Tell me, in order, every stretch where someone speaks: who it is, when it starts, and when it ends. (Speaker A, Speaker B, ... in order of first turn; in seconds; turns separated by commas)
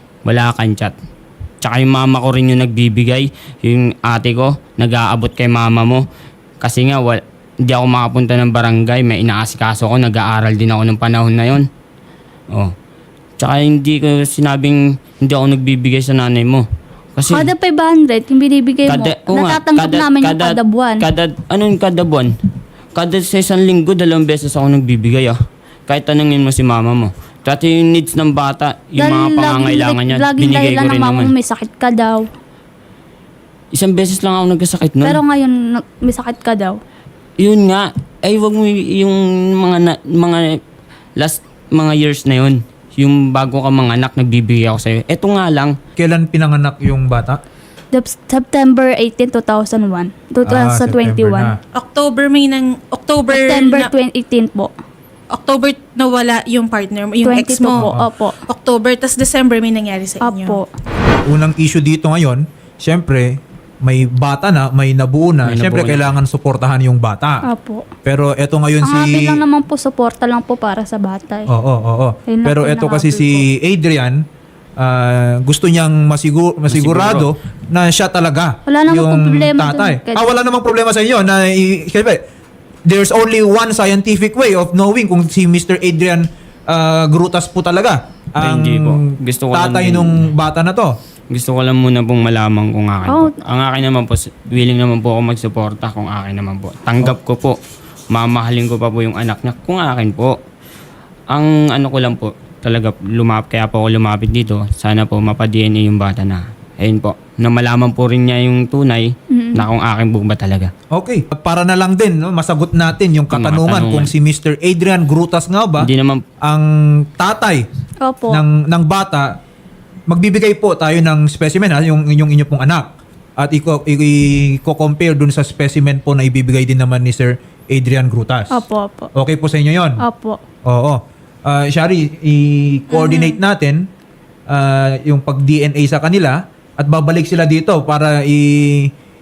Speaker A: 0.2-0.9, Speaker A: 1.6-6.0, Speaker A: 6.6-11.7, Speaker A: 13.4-16.6, Speaker A: 17.1-17.5, Speaker B: 17.3-21.0, Speaker A: 18.9-22.3, Speaker A: 22.9-25.3, Speaker A: 25.9-31.3, Speaker B: 29.0-32.2, Speaker A: 33.7-35.2, Speaker B: 35.0-36.8, Speaker A: 37.4-40.6, Speaker A: 41.2-45.8, Speaker C: 46.0-47.4, Speaker B: 47.9-51.5, Speaker C: 50.4-51.6, Speaker D: 51.7-53.9, Speaker B: 53.3-54.7, Speaker D: 55.3-60.6, Speaker B: 57.2-58.4, Speaker C: 57.8-58.1, Speaker B: 60.2-60.6, Speaker C: 61.2-67.4, Speaker A: 65.4-66.0, Speaker B: 67.5-67.9, Speaker C: 68.0-69.4, Speaker B: 68.8-71.5, Speaker C: 71.5-74.2, Speaker B: 72.3-73.4, Speaker C: 74.8-82.2, Speaker A: 76.7-77.3, Speaker B: 78.7-80.2, Speaker C: 82.8-90.9, Speaker A: 88.4-90.3, Speaker A: 91.3-97.6, Speaker B: 93.0-93.3, Speaker A: 98.1-100.3, Speaker A: 101.3-110.7, Speaker B: 109.3-109.7, Speaker C: 110.9-115.9, Speaker A: 113.3-114.1, Speaker A: 115.8-116.2, Speaker C: 116.4-117.6, Speaker B: 118.0-118.4, Speaker C: 118.3-119.3, Speaker C: 120.1-128.6, Speaker B: 128.5-129.1, Speaker C: 129.1-130.0, Speaker B: 130.0-130.4, Speaker C: 130.6-133.9, Speaker D: 132.9-133.4, Speaker C: 134.5-138.9